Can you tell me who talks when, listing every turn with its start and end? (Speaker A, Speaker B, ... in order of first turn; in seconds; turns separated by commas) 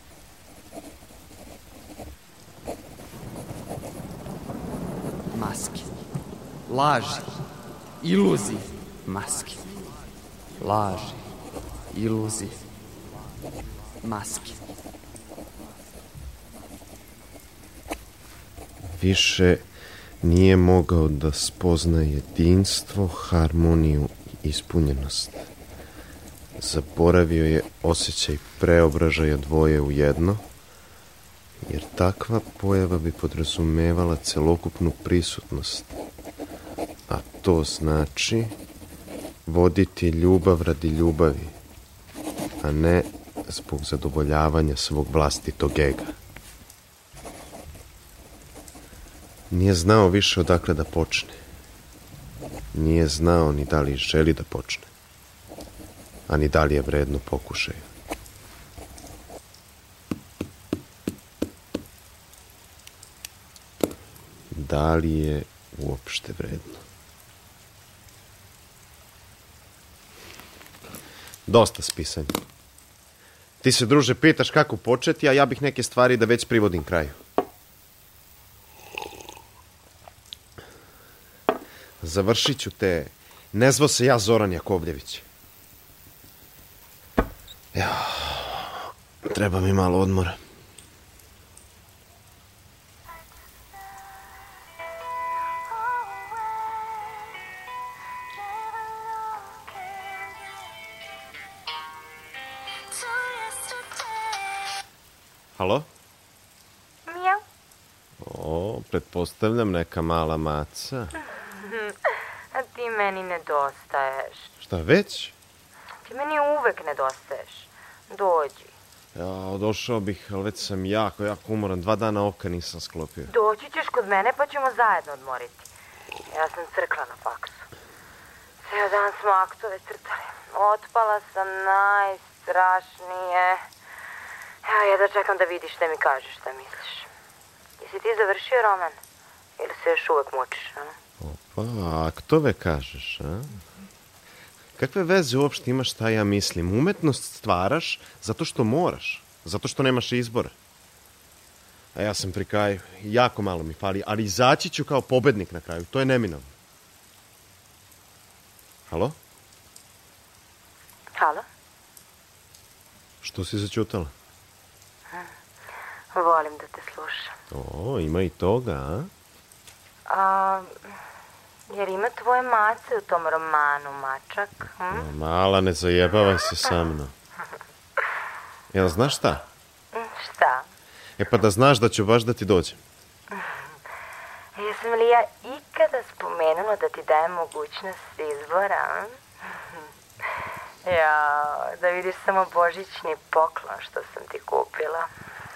Speaker A: 5.3-5.9, Speaker A: 6.7-7.3, Speaker A: 8.0-9.6, Speaker A: 10.6-11.3, Speaker A: 11.9-12.6, Speaker A: 14.0-14.6, Speaker B: 19.0-19.6, Speaker B: 20.2-25.5, Speaker B: 26.6-30.4, Speaker B: 31.6-35.9, Speaker B: 37.1-38.5, Speaker B: 39.5-41.5, Speaker B: 42.6-46.1, Speaker B: 49.5-51.4, Speaker B: 52.7-54.9, Speaker B: 56.3-57.8, Speaker B: 64.5-66.8, Speaker B: 71.5-72.3, Speaker B: 73.6-77.2, Speaker B: 82.0-85.2, Speaker B: 87.7-90.4, Speaker B: 105.5-105.9, Speaker C: 107.1-107.4, Speaker B: 108.2-111.1, Speaker C: 111.6-111.9, Speaker C: 112.5-114.5, Speaker B: 114.6-115.3, Speaker C: 116.0-118.7, Speaker B: 119.1-123.3, Speaker C: 123.3-125.7, Speaker C: 126.3-127.7, Speaker C: 128.6-133.6, Speaker C: 134.6-137.1, Speaker C: 137.8-139.0, Speaker C: 139.6-140.9, Speaker B: 141.2-143.6, Speaker B: 144.8-150.5, Speaker B: 151.9-156.5, Speaker B: 158.9-159.2, Speaker C: 161.1-161.4, Speaker B: 163.2-164.1, Speaker C: 166.1-167.4, Speaker B: 167.5-169.1, Speaker C: 170.1-170.7, Speaker C: 171.7-175.1, Speaker B: 174.9-177.1, Speaker B: 178.7-179.4, Speaker C: 179.9-180.7, Speaker B: 181.2-182.8, Speaker C: 184.6-189.1, Speaker C: 190.8-195.1